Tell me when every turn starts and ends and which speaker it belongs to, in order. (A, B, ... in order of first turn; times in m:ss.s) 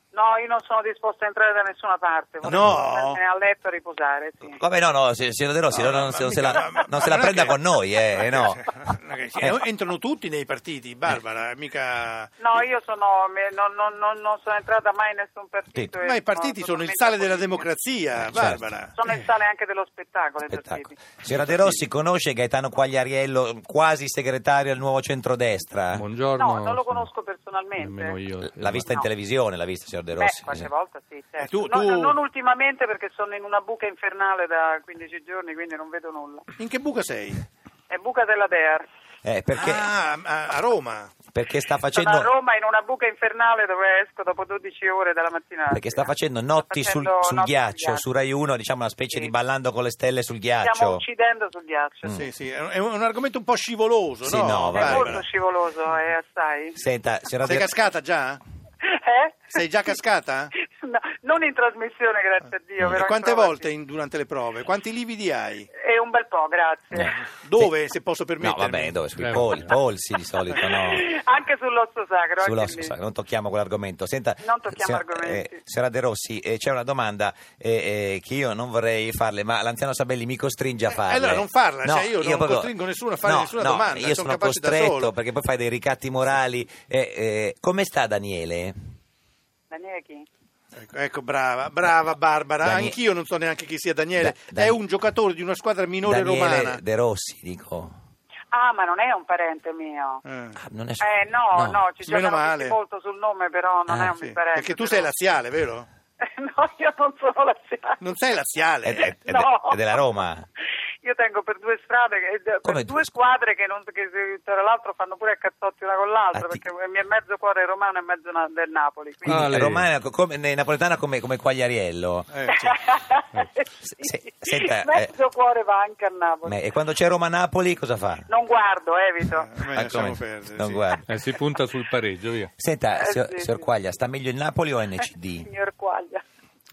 0:00.1-0:04.6 A
0:02.4-0:03.2 B
0:04.5-0:08.6 C
0:05.7-0:12.4 B
0:12.4-0:17.6 A
0:16.0-0:18.9 B
0:18.2-0:18.7 C
0:18.9-0:21.0 A
0:20.4-0:26.0 C
0:21.3-0:21.8 B
0:25.9-0:27.1 D
0:26.4-0:28.2 A
0:27.7-0:28.9 D
0:28.4-0:30.7 C
0:30.1-0:36.4 A
0:31.4-0:32.2 B
0:36.6-0:37.4 B
0:37.9-0:38.8 A
0:39.2-0:39.9 C
0:39.6-0:41.1 B
0:41.3-0:42.3 C
0:41.9-0:48.0 A
0:45.7-0:51.0 C
0:50.6-0:52.2 A
0:52.1-0:55.2 B
0:54.2-0:55.2 C
0:54.7-0:56.8 A
0:56.8-0:57.7 C
0:57.4-0:58.4 B
0:58.8-0:59.6 A
0:59.5-1:00.5 B
1:00.6-1:03.7 A
1:03.0-1:05.7 B
1:05.8-1:07.1 A
1:06.9-1:07.7 C
1:07.4-1:09.0 B
1:08.4-1:11.0 C
1:09.2-1:09.7 D
1:10.6-1:12.9 A
1:12.4-1:22.7 C
1:14.4-1:15.6 A
1:21.1-1:25.1 B
1:23.2-1:28.7 C
1:29.7-1:30.3 A
1:30.7-1:36.8 B
1:32.6-1:33.0 C
1:34.2-1:34.8 C
1:36.0-1:38.0 C
1:38.5-1:40.2 A
1:40.2-1:40.6 B
1:40.6-1:41.8 C
1:41.0-1:45.1 A
1:42.0-1:42.8 B
1:43.9-1:44.1 C
1:44.2-1:45.9 B
1:46.2-1:48.0 A
1:48.0-1:49.0 B
1:48.8-1:50.4 C
1:49.0-1:50.0 A
1:51.0-1:59.6 A
1:52.6-1:53.1 C
1:56.3-1:56.6 C
1:59.2-2:02.8 C
1:59.2-1:59.9 D
2:02.3-2:02.6 B
2:02.5-2:06.6 A
2:03.8-2:05.1 C
2:06.4-2:08.3 C
2:08.3-2:09.5 A
2:09.4-2:10.9 B
2:09.7-2:11.1 C
2:11.0-2:12.5 D
2:12.6-2:15.5 C
2:13.0-2:13.6 A
2:15.4-2:16.2 A